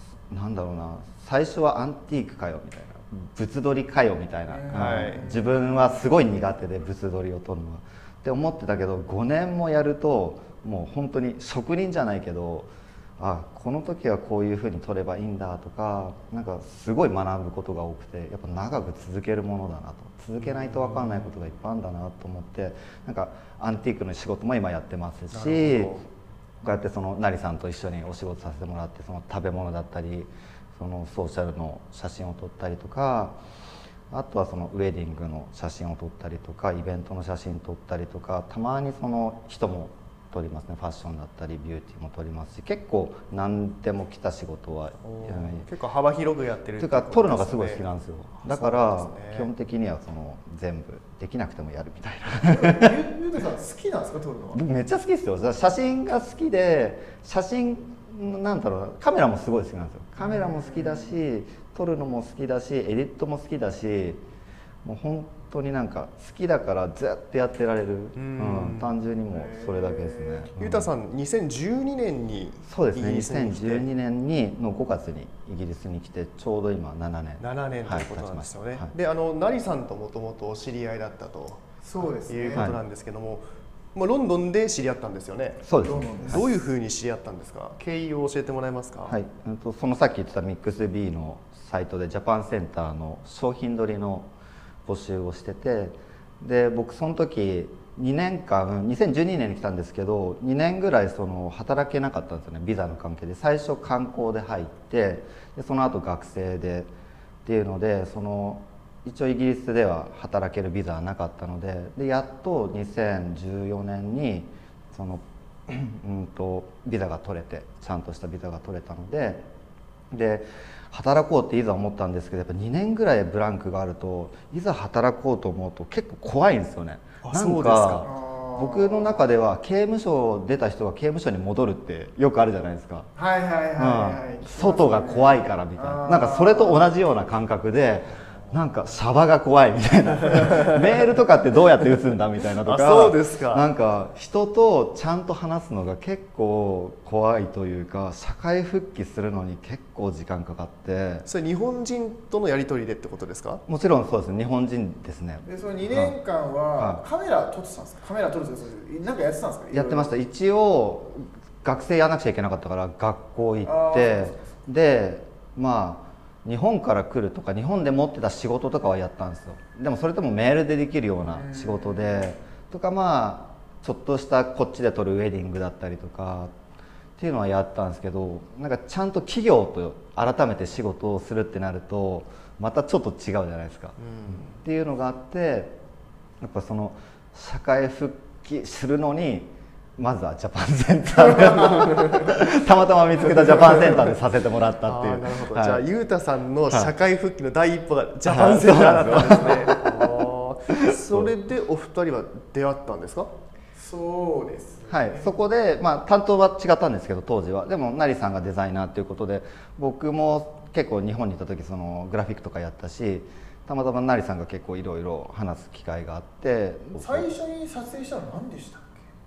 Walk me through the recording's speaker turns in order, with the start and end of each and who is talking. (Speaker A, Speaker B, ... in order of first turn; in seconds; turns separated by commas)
Speaker A: 0.3-25.9, Speaker B: 4.5-6.0, Speaker C: 4.7-5.3, Speaker C: 20.4-21.3, Speaker C: 25.3-26.1, Speaker A: 26.6-33.4, Speaker A: 34.1-45.7, Speaker C: 45.0-47.9, Speaker A: 46.8-53.0, Speaker C: 48.4-49.5, Speaker B: 52.5-54.6, Speaker A: 54.5-64.2, Speaker B: 60.3-61.1, Speaker A: 64.8-70.9, Speaker C: 68.2-69.0, Speaker B: 69.3-70.5, Speaker C: 70.6-73.9, Speaker A: 72.7-78.9, Speaker C: 77.4-85.7, Speaker B: 81.8-82.7, Speaker A: 85.6-86.5, Speaker B: 85.8-86.4, Speaker C: 86.2-89.2, Speaker A: 89.1-94.3, Speaker A: 94.8-106.9, Speaker A: 107.5-119.5, Speaker A: 120.1-133.1, Speaker C: 127.2-128.1, Speaker B: 128.0-129.2, Speaker B: 133.2-136.9, Speaker A: 133.8-151.3, Speaker C: 142.6-143.7, Speaker C: 151.3-153.6, Speaker A: 153.7-156.2, Speaker B: 155.5-160.1, Speaker A: 156.8-157.0, Speaker A: 159.7-176.5, Speaker B: 163.7-164.4, Speaker B: 171.3-172.4, Speaker A: 177.2-185.8, Speaker C: 184.0-184.6, Speaker A: 186.4-195.8, Speaker C: 194.8-203.3, Speaker A: 198.3-200.1, Speaker A: 200.7-201.3, Speaker B: 203.8-205.3, Speaker A: 204.9-217.3, Speaker B: 217.0-219.1